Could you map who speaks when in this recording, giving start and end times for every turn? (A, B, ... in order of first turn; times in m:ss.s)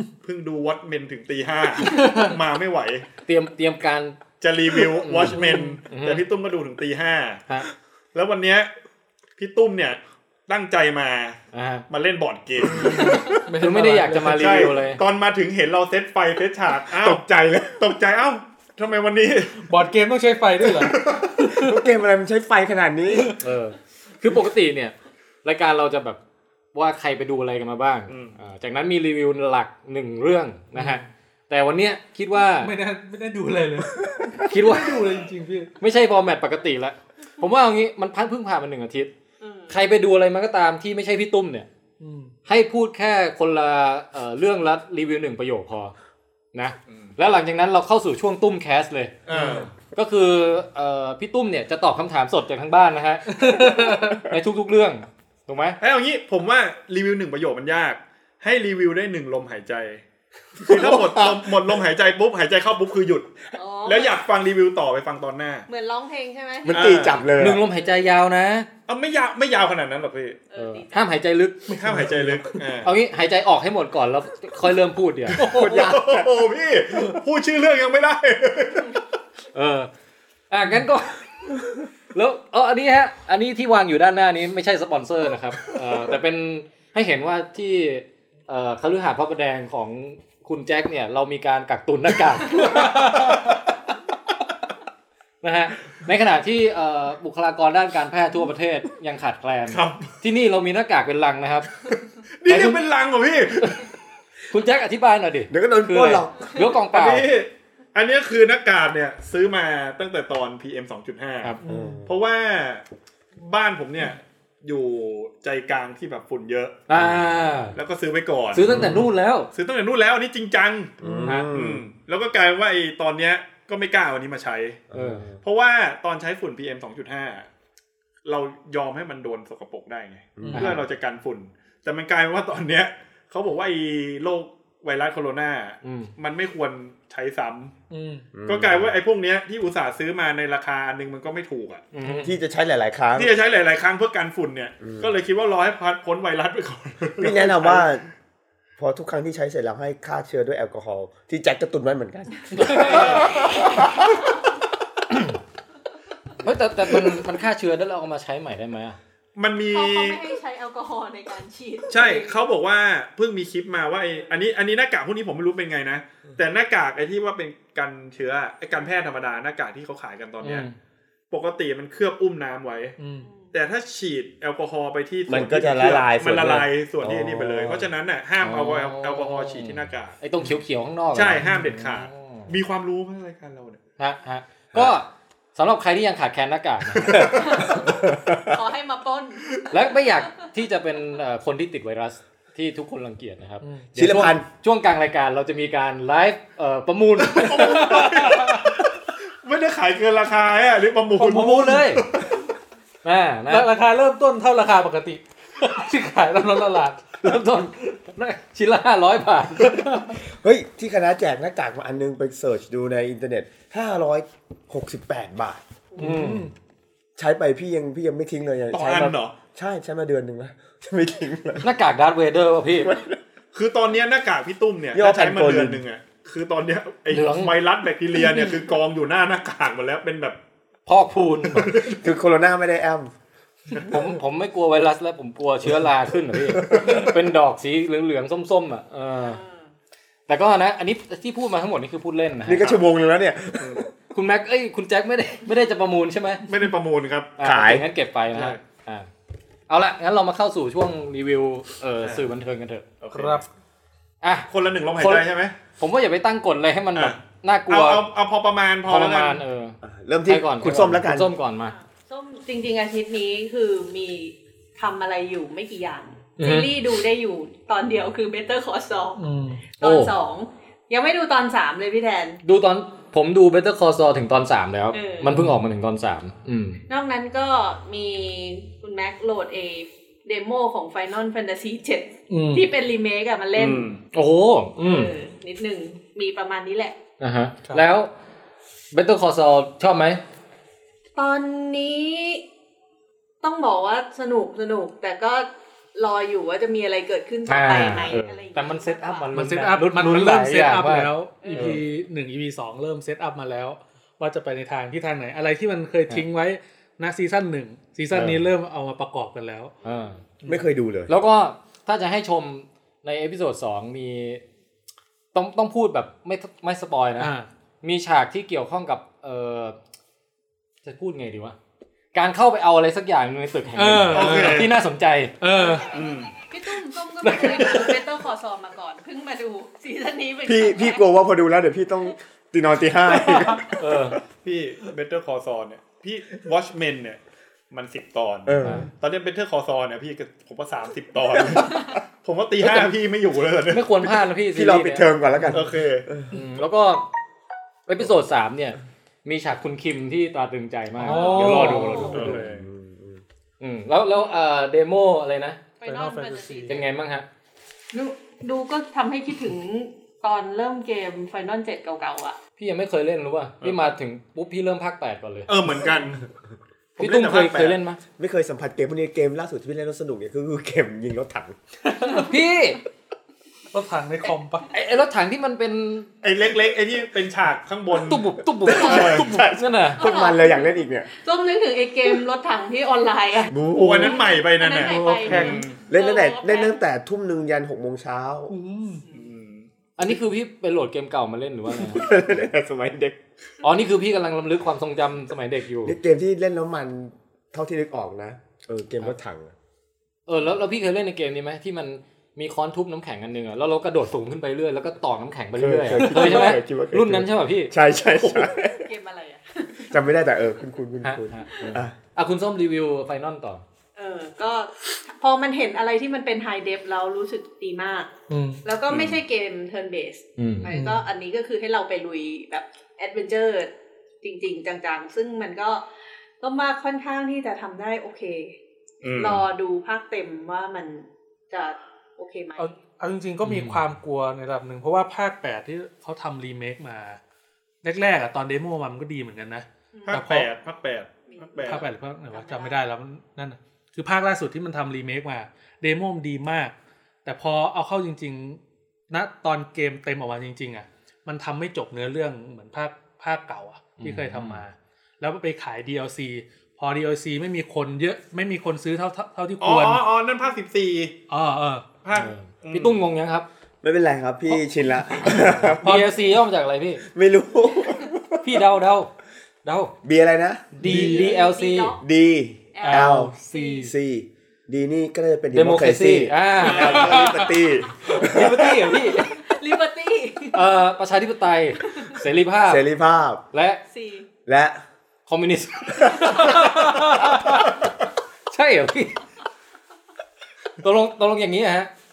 0:00.2-0:03.1 A
0:01.8-0:02.4 B
0:03.2-0:04.2 C
0:04.4-0:07.4 A
0:05.0-0:06.2 C
0:05.4-0:05.6 B
0:08.1-0:08.7 A
0:09.4-0:13.4 A
0:11.5-0:11.8 C
0:12.6-0:14.7 B
0:12.9-0:15.0 C
0:14.2-0:19.7 A
0:16.9-0:17.8 D
0:19.6-0:21.8 B
0:20.6-0:21.5 A
0:21.5-0:23.3 D
0:23.4-0:26.2 C
0:26.7-0:32.7 C
0:28.1-0:28.4 A
0:30.7-0:31.1 B
0:32.6-0:35.7 B
0:34.5-0:35.0 C
0:35.8-0:39.1 C
0:39.4-0:39.8 E
0:39.7-0:41.7 C
0:42.0-0:42.3 B
0:42.4-0:45.9 C
0:46.5-0:49.2 C
0:46.9-0:47.1 A
0:49.3-0:49.7 A
0:49.3-0:49.7 B
0:49.8-0:55.8 C
0:53.3-0:54.3 B
0:55.8-1:00.0 A
1:00.6-1:01.8 D
1:00.6-1:03.3 A
1:03.5-1:04.2 E
1:03.8-1:05.6 A
1:05.7-1:07.0 E
1:06.6-1:07.6 D
1:06.7-1:07.3 A
1:07.4-1:08.7 C
1:07.7-1:08.1 E
1:08.9-1:10.4 A
1:10.5-1:11.1 E
1:10.6-1:11.8 C
1:11.7-1:12.6 B
1:11.7-1:12.9 A
1:12.8-1:15.4 C
1:15.3-1:16.3 D
1:15.4-1:19.0 A
1:15.4-1:15.7 B
1:19.5-1:19.9 C
1:20.5-1:21.2 C
1:22.1-1:33.0 C
1:32.6-1:33.5 B
1:33.2-1:33.5 A
1:35.4-1:41.7 C
1:39.7-1:40.1 A
1:42.4-1:43.9 A
1:42.5-1:42.8 C
1:44.5-1:47.3 C
1:45.5-1:46.6 D
1:46.9-1:52.8 A
1:51.6-1:52.0 B
1:51.6-1:52.1 D
1:53.4-1:56.8 A
1:56.9-1:57.8 C
1:56.9-1:57.2 D
1:57.7-1:59.0 A
1:58.5-1:59.5 C
1:58.7-1:59.0 D
1:59.5-2:04.8 A
2:01.0-2:01.8 D
2:04.9-2:05.4 D
2:04.9-2:05.2 C
2:05.4-2:07.5 A
2:08.2-2:17.7 A
2:10.4-2:10.8 D
2:10.5-2:10.8 C
2:15.8-2:16.1 C
2:17.9-2:18.3 B
2:18.3-2:19.0 D
2:18.4-2:21.8 A
2:21.9-2:22.3 C
2:22.2-2:23.4 D
2:23.1-2:27.9 A
2:24.8-2:25.1 D
2:27.2-2:28.1 D
2:28.8-2:34.1 D
2:32.5-2:33.4 C
2:36.4-2:39.0 C
2:39.4-2:40.2 A
2:39.7-2:42.4 E
2:41.9-2:50.7 A
2:50.4-2:50.7 C
2:51.3-2:53.0 A
2:53.0-2:53.3 B
2:53.2-2:53.5 E
2:53.5-3:00.2 A
2:55.3-2:57.9 D
2:58.4-3:02.5 C
3:01.1-3:03.8 A
3:04.0-3:07.4 C
3:07.0-3:08.6 D
3:07.2-3:10.4 E
3:09.7-3:18.0 C
3:13.6-3:13.9 B
3:13.9-3:14.4 D
3:17.2-3:22.5 A
3:17.6-3:18.8 B
3:21.2-3:22.0 C
3:23.0-3:23.7 C
3:23.5-3:27.2 B
3:27.2-3:30.2 C
3:30.4-3:35.6 D
3:36.0-3:36.5 B
3:36.0-3:36.5 C
3:37.2-3:41.7 D
3:38.7-3:39.4 A
3:41.6-3:42.9 C
3:42.8-3:43.2 D
3:43.5-3:50.4 A
3:44.9-3:45.8 D
3:47.1-3:47.5 C
3:50.8-3:51.7 C
3:51.5-3:52.0 A
3:51.9-3:53.1 D
3:53.8-3:59.4 C
3:56.3-3:57.2 D
3:59.2-3:59.7 E
4:00.3-4:02.8 C
4:02.4-4:03.9 D
4:04.1-4:06.4 C
4:06.4-4:07.4 A
4:07.4-4:09.1 C
4:07.4-4:07.8 D
4:08.3-4:08.6 A
4:09.7-4:12.8 C
4:12.0-4:12.3 A
4:13.0-4:13.4 A
4:13.1-4:13.4 B
4:14.2-4:15.3 C
4:14.5-4:15.5 A
4:15.8-4:18.0 C
4:16.9-4:19.4 A
4:18.8-4:21.7 C
4:19.8-4:21.3 D
4:21.6-4:29.2 E
4:26.4-4:26.7 C
4:29.2-4:29.6 B
4:29.8-4:32.4 E
4:29.8-4:30.1 C
4:32.4-4:36.8 C
4:34.9-4:35.3 E
4:36.9-4:43.9 E
4:42.3-4:42.6 B
4:43.6-4:44.0 A
4:44.1-4:45.1 C
4:44.8-4:47.0 E
4:47.2-4:48.1 C
4:48.9-4:50.2 C
4:51.2-4:52.4 E
4:53.4-4:59.3 E
4:57.5-5:01.8 C
4:59.3-5:09.7 B
5:01.4-5:01.8 E
5:08.1-5:08.4 C
5:09.8-5:10.2 C
5:10.4-5:11.1 D
5:11.1-5:14.4 C
5:15.3-5:19.8 C
5:17.2-5:17.5 B
5:20.8-5:21.6 C
5:22.1-5:25.4 C
5:23.7-5:24.7 B
5:24.1-5:24.7 A
5:25.4-5:25.9 B
5:25.5-5:31.1 E
5:25.9-5:26.3 A
5:27.2-5:27.7 C
5:27.5-5:28.0 A
5:30.4-5:33.8 D
5:33.3-5:33.6 B
5:33.8-5:34.2 C
5:34.4-5:44.2 A
5:38.4-5:38.9 D
5:43.7-5:45.1 C
5:44.5-5:46.3 D
5:45.5-5:46.1 A
5:46.3-5:47.1 C
5:47.9-5:52.4 C
5:51.0-5:52.4 B
5:51.1-5:51.4 E
5:51.3-5:53.2 D
5:51.5-5:52.6 A
5:53.6-5:55.6 C
5:55.8-5:56.8 E
5:55.8-5:56.8 B
5:56.7-5:57.2 C
5:57.9-6:02.4 E
6:02.6-6:05.5 C
6:03.6-6:03.8 A
6:05.5-6:06.3 A
6:07.0-6:08.0 C
6:07.0-6:07.8 A
6:08.2-6:11.6 D
6:11.8-6:12.4 B
6:12.1-6:12.8 C
6:13.7-6:14.7 B
6:14.7-6:16.1 C
6:16.2-6:18.2 A
6:18.0-6:20.0 C
6:18.6-6:21.1 D
6:18.8-6:19.2 A
6:20.0-6:26.8 E
6:23.5-6:24.3 D
6:23.7-6:25.8 A
6:25.3-6:25.6 B
6:25.3-6:28.5 D
6:28.5-6:29.0 B
6:29.1-6:29.7 A
6:30.0-6:32.0 C
6:31.7-6:33.2 D
6:33.6-6:36.0 C
6:35.8-6:39.5 D
6:40.3-6:47.7 C
6:45.6-6:48.9 D
6:46.0-6:46.5 B
6:48.7-6:50.1 E
6:49.9-6:51.9 D
6:51.0-6:53.6 C
6:54.0-6:58.1 E
6:58.3-6:58.6 B
6:58.6-7:05.8 E
6:58.9-6:59.2 A
7:00.4-7:00.7 C
7:00.7-7:01.0 B
7:06.4-7:08.6 E
7:09.0-7:09.4 A
7:09.2-7:12.8 E
7:12.6-7:17.2 B
7:13.4-7:13.8 C
7:17.8-7:20.5 B
7:19.9-7:20.2 E
7:20.1-7:21.9 A
7:21.3-7:22.8 E
7:21.6-7:26.7 B
7:27.2-7:40.0 B
7:34.0-7:34.6 C
7:39.6-7:41.2 A
7:41.3-7:41.9 B
7:42.0-7:43.0 A
7:42.1-7:43.5 C
7:43.8-7:46.1 D
7:45.2-7:47.0 C
7:45.7-7:46.1 B
7:47.0-7:48.6 D
7:48.4-7:49.1 C
7:49.6-7:49.9 C
7:50.0-7:50.8 D
7:50.7-7:51.9 C
7:50.8-7:51.3 B
7:50.8-7:52.0 E
7:52.0-7:58.8 D
7:52.7-7:53.9 E
7:52.8-7:53.9 B
7:55.5-7:57.1 C
7:56.7-7:57.1 A
7:56.8-7:57.5 B
7:58.1-7:59.3 C
7:58.3-7:59.0 B
7:59.1-8:00.7 E
8:00.5-8:02.8 C
8:02.6-8:03.4 D
8:03.5-8:03.8 C
8:03.9-8:04.3 E
8:04.4-8:04.8 D
8:05.3-8:07.7 C
8:06.4-8:07.1 B
8:08.5-8:09.2 C
8:10.8-8:11.9 C